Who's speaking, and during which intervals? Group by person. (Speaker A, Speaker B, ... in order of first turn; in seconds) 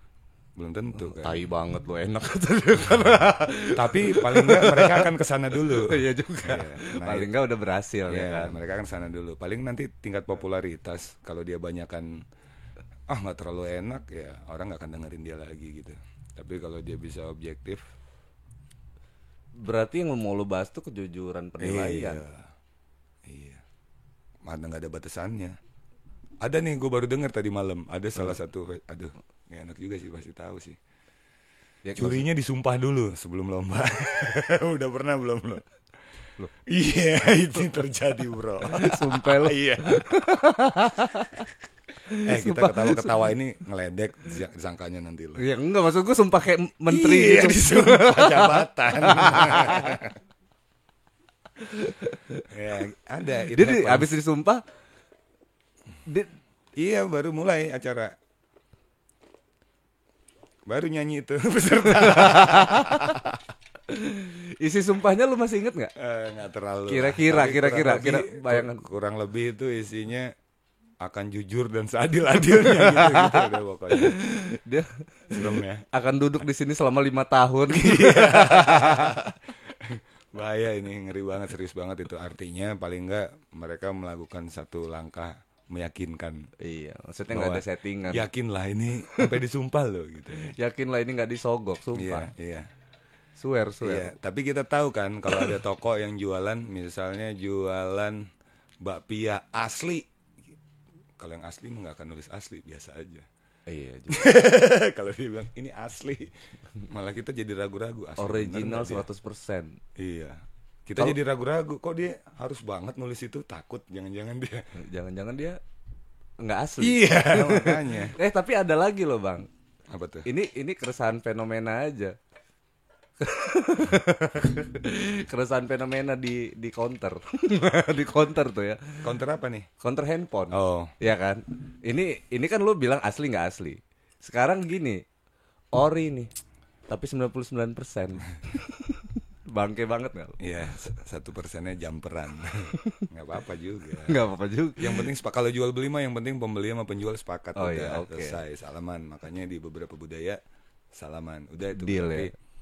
Speaker A: 0.6-1.5, 3.7-7.3, 8.1-12.2, 13.1-17.8, 21.6-22.5, 23.2-23.6, 24.4-25.6, 26.4-30.8, 32.0-35.6, 36.6-40.2, 42.2-45.4, 46.9-50.2, 52.5-54.1, 56.8-58.2, 60.7-63.3, 66.0-70.3, 71.0-74.2, 75.3-75.9, 77.7-86.5, 87.3-90.5, 91.9-92.7, 93.8-98.3, 98.8-100.1, 101.2-103.3, 104.1-109.1, 110.0-114.7, 116.8-118.2, 119.9-120.3, 129.0-129.7, 130.5-130.9, 140.4-144.2, 144.8-150.4, 150.9-152.3
Speaker B: 0.9-8.6, 19.6-22.2, 31.8-32.2, 38.6-41.5, 42.0-43.3, 45.4-50.0, 51.6-52.5, 53.4-54.6, 56.0-56.3, 61.9-63.3, 63.9-65.9, 66.9-68.8, 72.5-79.2, 86.6-88.3, 89.1-89.3, 90.3-92.3, 93.4-94.1, 103.7-104.2, 108.2-109.8, 114.7-115.6, 116.4-119.5, 120.2-122.2, 123.2-129.0, 129.8-135.0, 135.7-136.3, 136.9-140.4, 142.8-143.1, 144.0-145.1, 147.6-148.4, 151.7-152.3